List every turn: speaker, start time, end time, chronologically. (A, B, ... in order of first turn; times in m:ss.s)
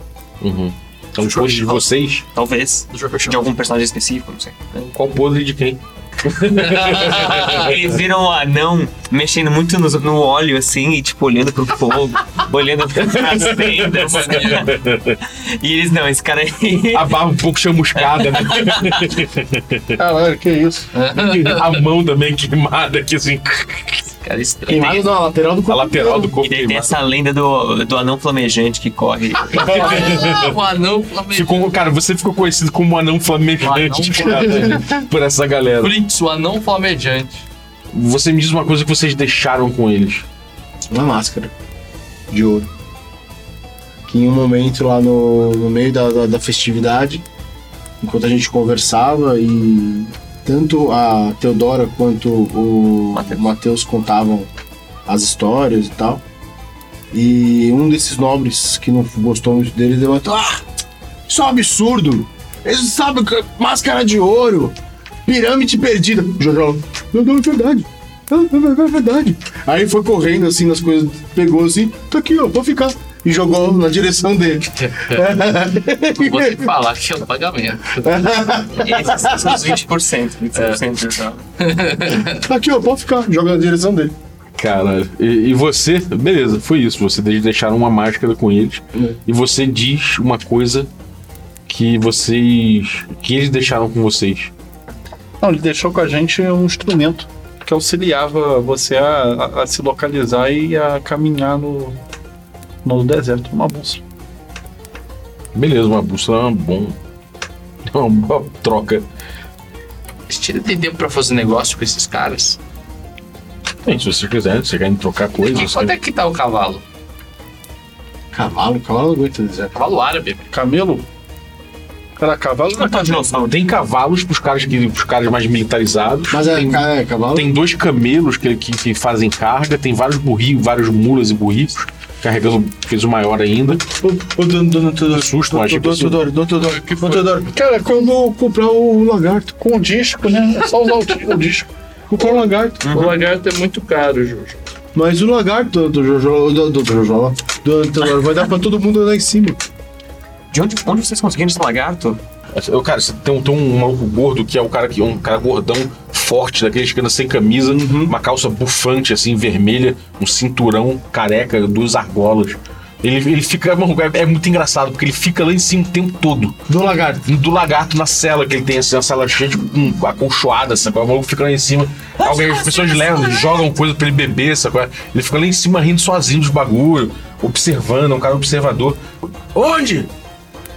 0:00.4-0:02.2 A
0:01.2-0:01.8 B
0:02.3-0:04.8 C
0:02.9-0:03.5 B
0:04.9-0:07.6 A
0:06.7-0:07.6 B
0:07.1-0:17.2 C
0:13.0-0:15.2 A
0:13.8-0:14.7 B
0:16.9-0:20.0 A
0:18.0-0:19.1 C
0:20.0-0:20.9 D
0:20.9-0:21.8 B
0:21.1-0:24.0 A
0:24.2-0:25.1 B
0:24.7-0:26.3 E
0:25.7-0:27.0 A
0:26.4-0:30.1 C
0:29.5-0:31.7 B
0:29.7-0:30.6 A
0:31.3-0:35.9 A
0:33.6-0:34.9 B
0:35.8-0:37.5 B
0:37.9-0:40.3 A
0:40.9-0:41.5 E
0:42.3-0:42.7 E
0:44.1-0:47.2 E
0:48.0-0:54.5 E
0:53.1-0:53.5 C
0:55.1-0:56.2 E
0:57.1-1:00.6 E
1:01.3-1:16.7 E
1:14.8-1:15.2 B
1:16.2-1:18.1 B
1:18.0-1:19.7 E
1:18.8-1:21.4 C
1:20.5-1:20.8 B
1:21.6-1:22.4 B
1:22.3-1:24.1 E
1:24.6-1:30.9 A
1:31.7-1:34.5 A
1:35.4-1:42.0 D
1:42.8-1:44.0 D
1:45.5-1:47.0 A
1:47.8-1:49.0 A
1:50.3-1:52.6 B
1:53.8-1:55.9 A
1:55.5-1:56.8 B
1:58.3-1:59.7 E
1:59.7-2:00.5 B
2:00.5-2:01.0 D
2:02.2-2:03.3 D
2:02.7-2:03.6 C
2:03.4-2:13.8 A
2:06.3-2:07.5 E
2:13.9-2:19.5 E
2:15.1-2:16.2 A
2:16.7-2:17.2 B
2:17.4-2:18.1 D
2:19.5-2:21.7 D
2:22.1-2:23.1 E
2:22.8-2:23.2 C
2:22.9-2:24.6 B
2:24.9-2:29.6 E
2:30.5-2:32.2 C
2:32.5-2:46.7 A
2:37.7-2:38.1 E
2:46.7-2:47.2 E
2:47.2-3:00.1 A
2:52.2-2:53.5 C